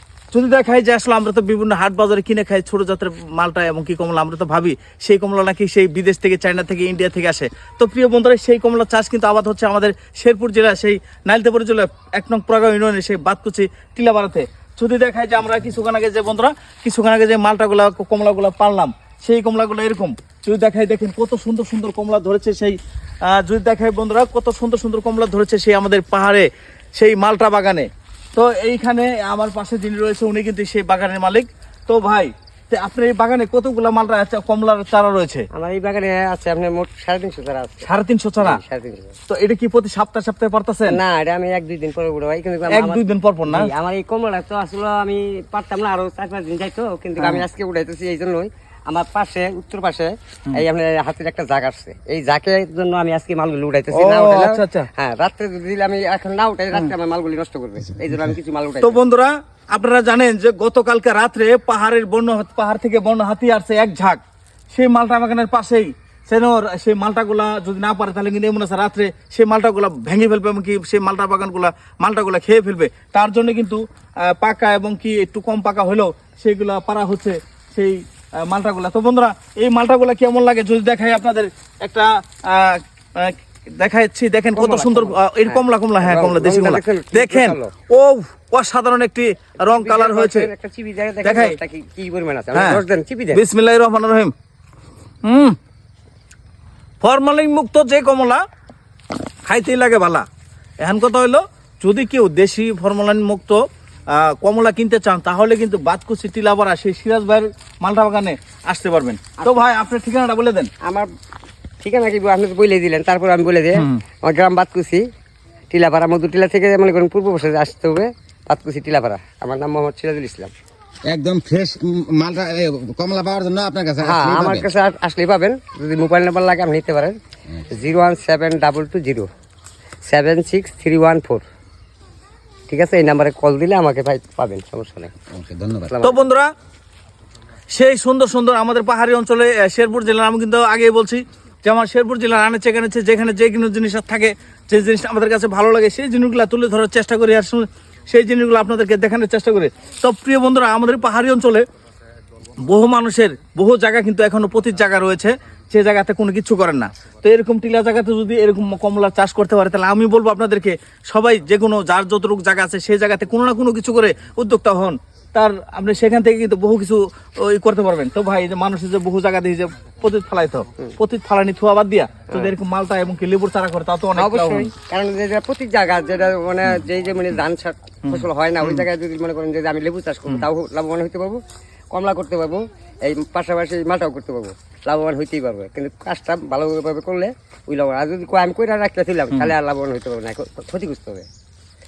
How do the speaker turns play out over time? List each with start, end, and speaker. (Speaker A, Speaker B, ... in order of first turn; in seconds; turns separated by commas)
Speaker A: 0.3-35.5, Speaker B: 35.5-37.9, Speaker A: 37.8-38.6, Speaker B: 38.4-39.1, Speaker A: 39.3-41.0, Speaker B: 40.9-59.0, Speaker A: 42.7-43.7, Speaker A: 47.2-47.4, Speaker A: 53.9-54.9, Speaker A: 58.8-64.2, Speaker A: 64.7-90.5, Speaker B: 84.5-87.7, Speaker B: 89.7-93.4, Speaker A: 91.2-91.5, Speaker A: 92.5-92.8, Speaker A: 93.3-94.3, Speaker A: 95.2-95.6, Speaker A: 97.0-98.4, Speaker A: 99.5-100.2, Speaker A: 100.8-110.7, Speaker B: 110.8-111.1, Speaker B: 111.8-115.0, Speaker A: 113.7-114.0, Speaker B: 115.7-120.5, Speaker C: 121.0-124.7, Speaker B: 124.0-127.2, Speaker B: 127.7-129.3, Speaker B: 130.0-131.4, Speaker B: 132.7-135.1, Speaker C: 135.3-135.9, Speaker B: 135.9-136.3, Speaker A: 136.0-136.5, Speaker A: 137.7-151.6, Speaker A: 152.6-174.7, Speaker B: 174.2-181.4, Speaker A: 178.1-178.8, Speaker B: 181.9-191.3